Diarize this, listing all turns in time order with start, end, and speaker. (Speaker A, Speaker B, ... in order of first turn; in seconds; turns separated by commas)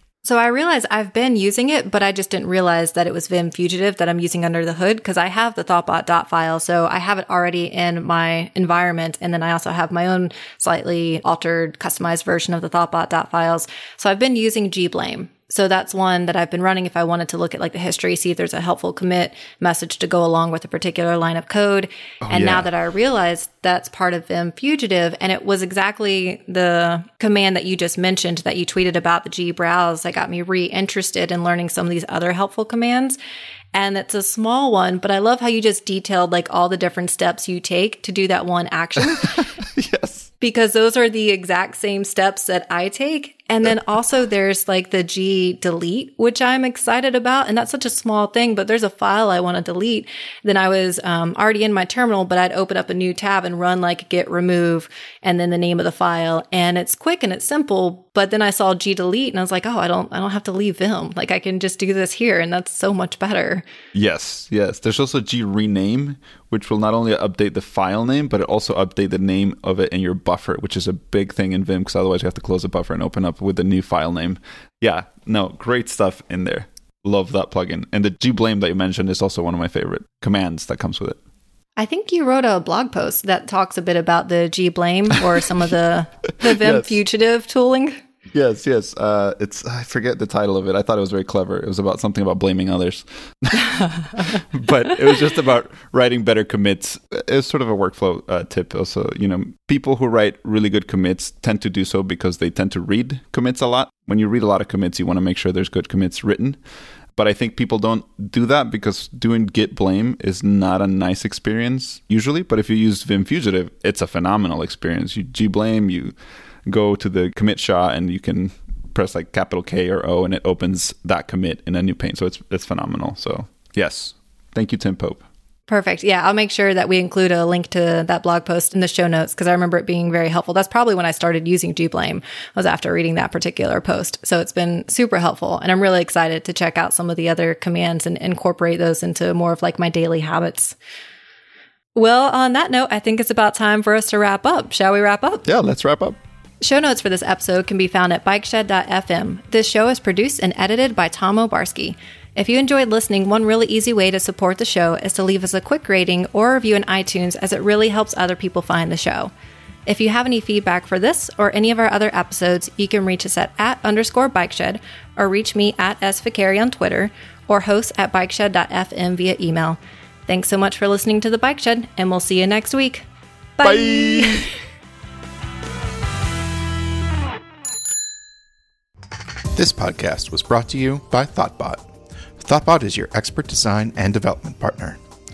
Speaker A: 0.2-33.2, Speaker B: 22.2-22.7, Speaker A: 33.7-39.5, Speaker B: 39.2-40.3, Speaker A: 40.4-63.6, Speaker B: 63.9-81.2, Speaker A: 81.8-88.0, Speaker B: 86.5-87.0, Speaker B: 88.3-106.6, Speaker B: 107.2-116.2, Speaker B: 116.7-125.2, Speaker A: 125.7-140.8, Speaker A: 142.0-145.4, Speaker B: 145.4-146.2, Speaker A: 146.6-159.3, Speaker A: 159.9-173.0, Speaker A: 173.6-174.6, Speaker B: 173.6-174.4, Speaker C: 179.5-181.8, Speaker C: 182.4-185.0